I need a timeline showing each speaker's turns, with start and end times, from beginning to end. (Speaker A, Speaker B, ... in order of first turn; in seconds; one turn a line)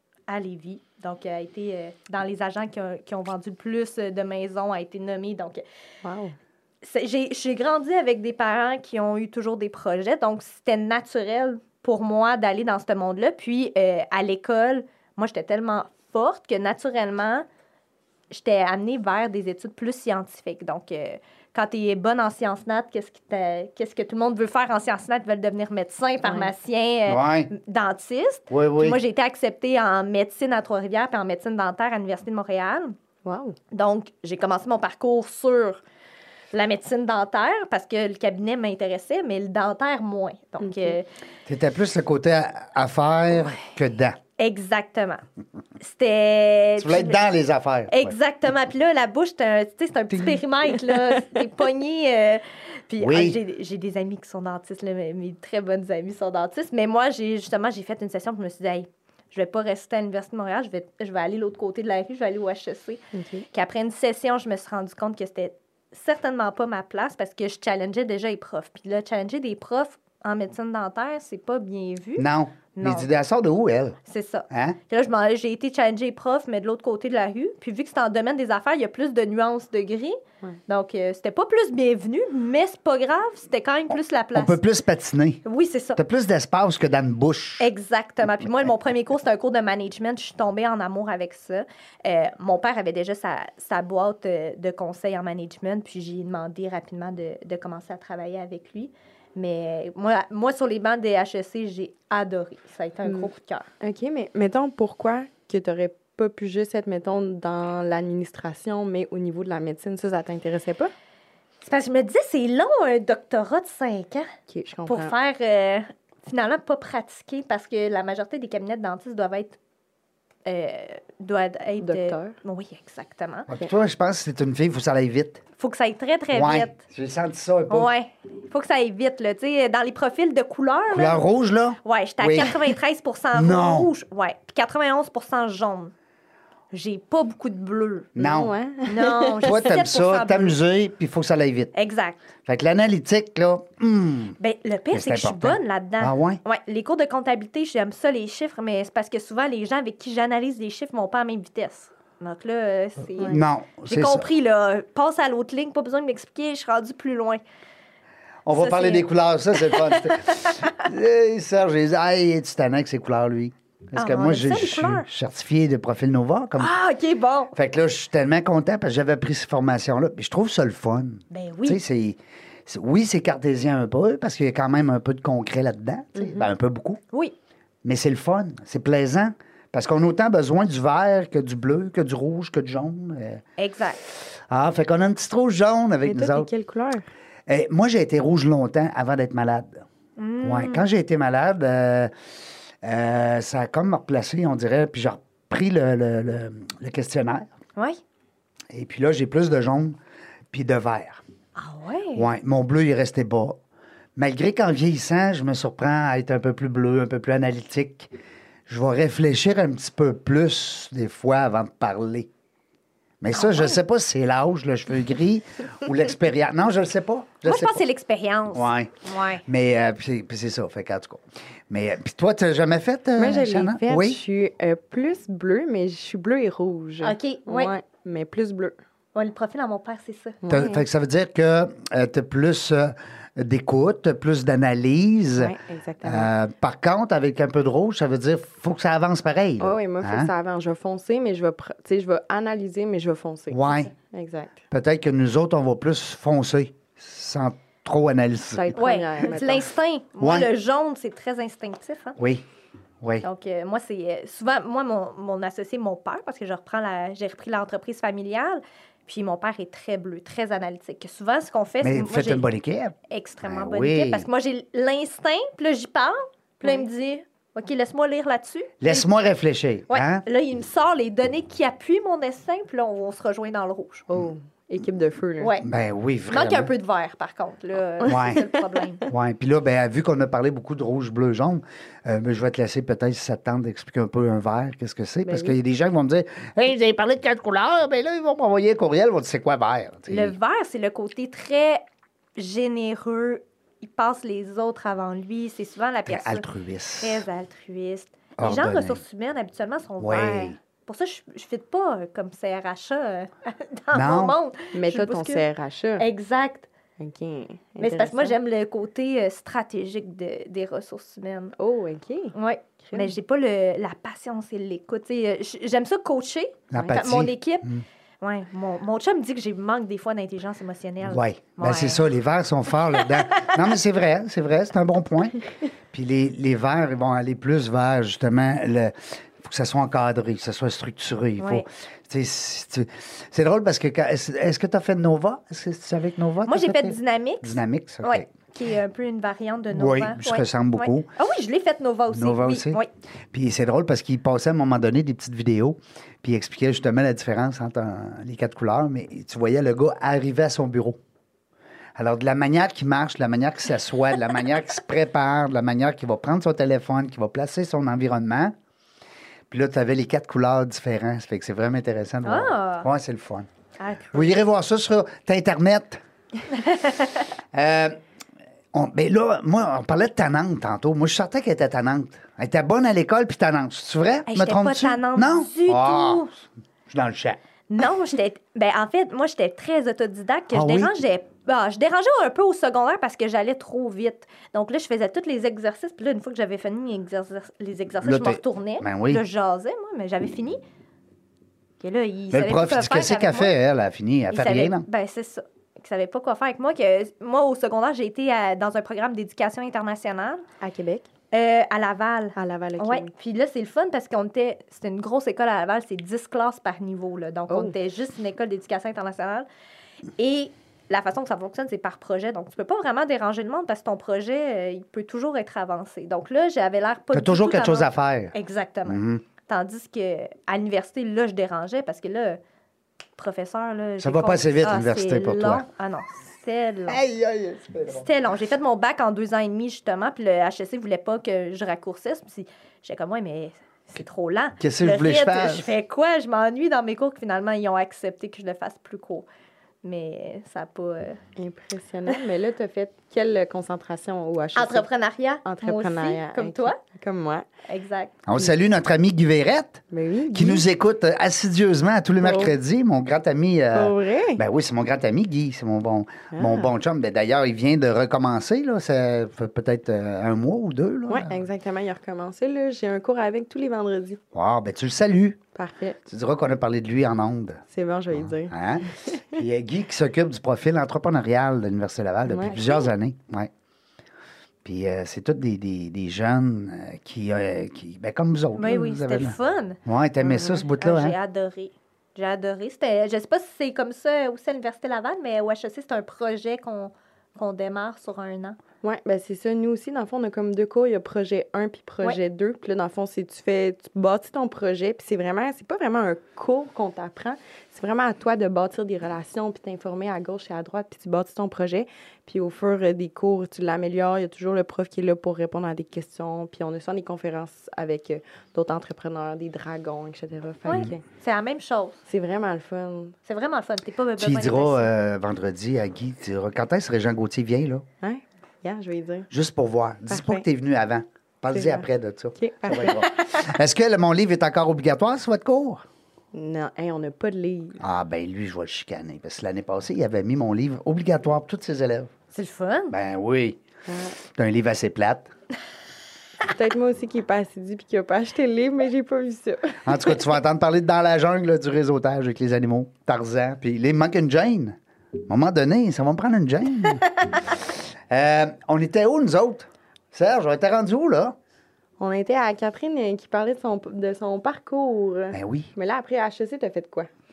Speaker A: 0.3-5.6
Speaker B: 6.0-6.3
Speaker A: 6.8-17.5
Speaker A: 18.3-33.0
Speaker B: 26.2-26.5
Speaker C: 27.1-27.5
Speaker C: 28.5-29.0
Speaker B: 33.2-33.6
Speaker A: 33.7-35.8
Speaker A: 36.5-41.1
Speaker B: 40.6-41.0
Speaker C: 41.5-44.2
Speaker A: 44.4-45.2
Speaker A: 45.8-47.2
Speaker C: 46.8-48.1
Speaker A: 47.9-73.1
Speaker C: 50.1-50.4
Speaker C: 53.0-53.4
Speaker B: 63.1-63.5
Speaker C: 72.2-74.0
Speaker A: 74.1-84.6
Speaker C: 74.5-74.8
Speaker C: 84.3-85.4
Speaker A: 85.5-86.0
Speaker C: 86.0-87.7
Speaker A: 87.6-103.7
Speaker B: 103.8-110.9
Speaker A: 111.6-114.3
Speaker B: 114.5-115.1
Speaker A: 114.9-119.6
Speaker A: 120.5-123.5
Speaker B: 121.8-122.4
Speaker C: 123.5-125.4
Speaker A: 125.6-126.8
Speaker C: 126.3-127.9
Speaker A: 127.7-131.2
Speaker C: 130.9-132.6
Speaker A: 131.8-135.9
Speaker C: 133.3-133.9
Speaker A: 136.7-138.1
Speaker C: 138.2-138.5
Speaker B: 138.2-139.5
Speaker A: 138.9-140.6
Speaker C: 139.4-141.7
Speaker A: 141.8-142.3
Speaker C: 142.5-144.4
Speaker A: 144.4-157.4
Speaker C: 144.9-146.4
Speaker C: 153.3-154.3
Speaker C: 158.5-166.7
Speaker A: 158.5-160.8
Speaker A: 164.0-165.1
Speaker A: 166.6-167.5
Speaker C: 167.6-177.0
Speaker A: 171.3-171.8
Speaker B: 176.2-176.5
Speaker C: 177.8-183.4
Speaker A: 183.6-184.0
Speaker C: 184.5-186.5
Speaker B: 186.1-187.1
Speaker C: 187.5-189.8
Speaker A: 190.2-190.8
Speaker C: 190.4-192.1
Speaker C: 192.8-197.5
Speaker C: 198.7-200.0
Speaker C: 200.5-201.2
Speaker A: 201.6-202.3
Speaker C: 202.2-203.6
Speaker C: 204.2-208.1
Speaker C: 208.7-212.3
Speaker C: 213.2-217.8
Speaker A: 213.3-213.8
Speaker A: 217.4-219.4
Speaker C: 218.5-218.9
Speaker C: 219.4-224.2
Speaker B: 223.2-228.8
Speaker A: 227.0-227.7
Speaker A: 229.2-230.4
Speaker B: 230.4-230.8
Speaker C: 230.5-240.3
Speaker B: 235.4-236.3
Speaker B: 239.6-244.6
Speaker C: 243.5-243.9
Speaker C: 244.7-248.8
Speaker B: 248.6-249.7
Speaker A: 248.7-252.2
Speaker C: 250.2-250.5
Speaker C: 252.2-252.5
Speaker C: 253.0-253.3
Speaker A: 253.2-262.5
Speaker C: 261.8-264.3
Speaker A: 263.1-269.1
Speaker C: 268.8-270.2
Speaker A: 269.9-274.1
Speaker B: 274.1-275.5
Speaker A: 275.4-275.7
Speaker C: 275.6-276.7
Speaker A: 276.3-279.0
Speaker C: 278.1-278.4
Speaker C: 279.1-290.4
Speaker B: 285.3-285.6
Speaker A: 290.1-291.8
Speaker A: 292.4-296.4
Speaker C: 296.1-297.2
Speaker A: 297.0-305.4
Speaker C: 298.4-299.0
Speaker C: 300.0-300.6
Speaker C: 303.9-304.4
Speaker B: 304.7-306.1
Speaker A: 306.0-306.7
Speaker B: 307.0-308.4
Speaker A: 307.8-311.6
Speaker B: 311.6-313.1
Speaker A: 312.3-317.7
Speaker C: 316.7-317.8
Speaker A: 318.2-322.1
Speaker C: 321.0-325.4
Speaker A: 323.1-323.6
Speaker C: 325.9-338.3
Speaker A: 331.4-331.7
Speaker A: 336.5-342.9
Speaker C: 339.7-341.1
Speaker C: 342.1-342.8
Speaker C: 343.3-351.0
Speaker C: 352.0-358.5
Speaker C: 359.5-363.5
Speaker A: 362.2-362.9
Speaker A: 363.8-364.3
Speaker C: 364.1-366.0
Speaker A: 366.6-367.1
Speaker C: 367.5-368.0
Speaker C: 368.7-377.4
Speaker A: 374.3-376.3
Speaker A: 377.7-390.6
Speaker C: 380.5-380.9
Speaker C: 388.0-389.2
Speaker A: 391.8-393.5
Speaker C: 392.3-394.9
Speaker A: 394.3-400.4
Speaker B: 400.6-401.1
Speaker A: 401.3-409.5
Speaker B: 402.4-403.1
Speaker A: 410.2-422.4
Speaker C: 417.1-418.3
Speaker C: 418.9-419.2
Speaker A: 423.2-427.0
Speaker C: 424.0-425.6
Speaker C: 426.9-428.1
Speaker A: 427.9-439.3
Speaker C: 434.6-435.7
Speaker A: 439.8-441.2
Speaker B: 441.4-444.9
Speaker A: 444.6-446.8
Speaker B: 445.4-447.5
Speaker A: 447.7-448.1
Speaker C: 448.3-449.8
Speaker B: 449.9-450.6
Speaker C: 450.3-461.5
Speaker B: 452.2-452.5
Speaker B: 453.7-454.4
Speaker B: 456.3-456.7
Speaker B: 461.1-464.2
Speaker C: 464.3-465.4
Speaker B: 465.6-466.0
Speaker C: 466.1-467.6
Speaker B: 467.7-469.2
Speaker C: 468.1-473.5
Speaker B: 472.3-472.7
Speaker C: 474.6-481.2
Speaker A: 478.6-479.8
Speaker B: 480.2-480.6
Speaker A: 480.8-488.6
Speaker B: 488.8-511.0
Speaker A: 510.7-512.0
Speaker B: 512.1-513.2
Speaker A: 513.3-514.9
Speaker C: 514.2-517.9
Speaker B: 518.0-519.3
Speaker C: 519.3-525.8
Speaker B: 520.1-520.5
Speaker B: 521.5-523.0
Speaker B: 526.3-527.8
Speaker C: 527.8-532.1
Speaker A: 532.3-533.0
Speaker C: 532.9-533.6
Speaker B: 533.9-534.1
Speaker C: 534.3-535.3
Speaker B: 536.5-540.0
Speaker C: 539.9-551.4
Speaker B: 552.0-557.1
Speaker C: 555.3-555.7